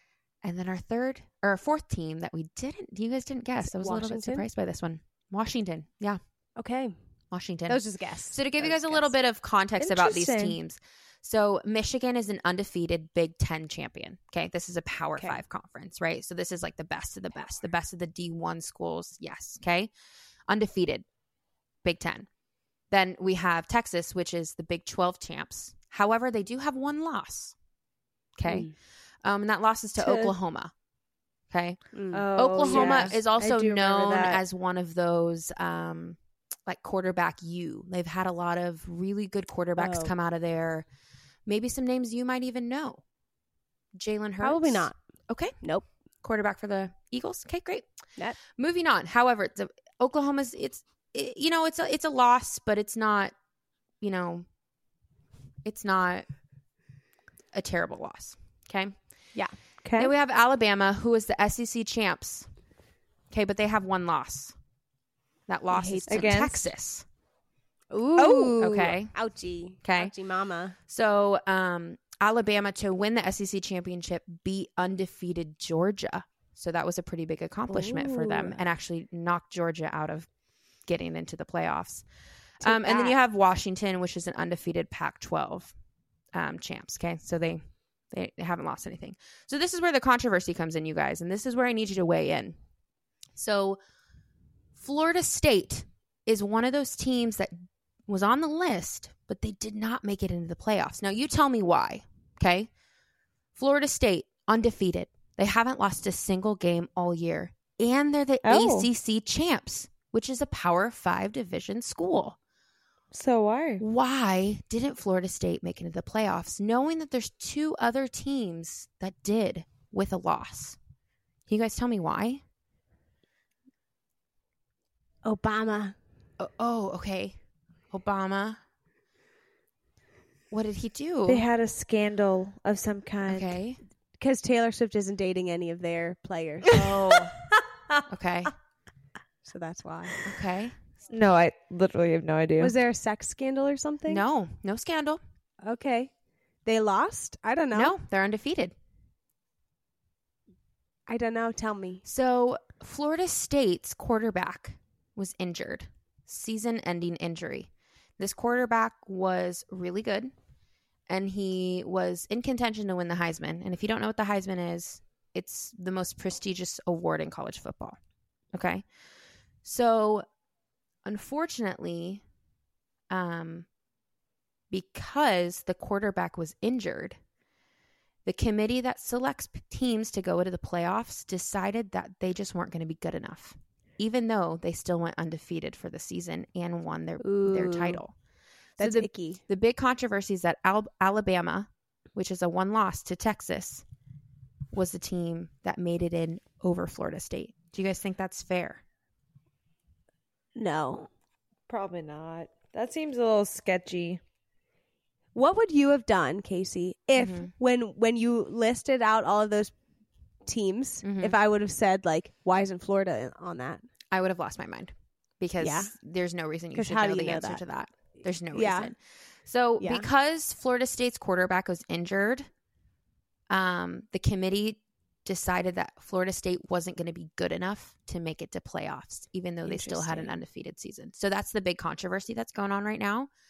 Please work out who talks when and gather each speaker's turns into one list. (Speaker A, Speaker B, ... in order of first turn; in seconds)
Speaker A: 0.4-6.2, 7.3-19.9, 20.5-21.1, 21.8-22.3, 22.9-27.6, 28.4-28.7, 29.2-30.7, 31.5-40.9, 41.5-43.0, 43.9-45.5, 46.2-47.9, 48.5-53.3, 54.0-54.5, 55.6-56.3, 57.5-59.0, 60.0-62.5, 63.3-64.6, 65.5-67.1, 68.6-69.1, 69.8-70.1, 70.9-80.3, 80.8-82.0, 82.6-85.7, 86.3-92.6, 93.4-93.8, 94.8-97.5, 98.1-102.7, 103.5-112.4, 113.8-120.8, 121.5-122.4, 126.4-127.4, 127.9-128.6, 130.5-131.5, 133.2-133.8, 136.7-137.4, 138.1-138.5, 140.2-140.8, 144.1-145.2, 147.7-148.8, 152.1-160.3, 161.1-168.0, 168.5-168.9, 169.6-170.2, 171.1-172.2, 173.1-173.7, 174.7-177.2, 178.2-188.1, 188.8-193.8, 194.7-198.8, 207.2-207.5, 211.0-211.3, 214.1-222.5, 223.5-233.3
Speaker B: 3.6-4.5, 6.6-6.9, 7.7-9.1, 15.2-15.4, 28.5-28.7, 31.9-33.1, 39.8-40.1, 44.4-45.0, 45.6-45.9, 65.7-66.5, 67.9-70.8, 77.7-78.6, 82.6-83.2, 125.2-126.0, 134.2-137.1, 139.4-140.2, 142.6-144.2, 145.6-146.1, 146.6-147.9, 151.1-152.0, 187.2-188.0, 188.8-189.4, 200.6-201.1, 205.3-209.7, 210.5-213.8, 215.6-215.9, 216.7-217.6, 218.5-218.9, 219.8-220.1
Speaker C: 9.8-10.6, 30.0-30.3, 32.1-34.4, 59.8-60.1, 66.1-66.6, 68.2-68.5, 108.4-108.9, 113.1-113.8, 131.3-133.6, 141.1-142.8, 201.7-204.2, 229.7-230.3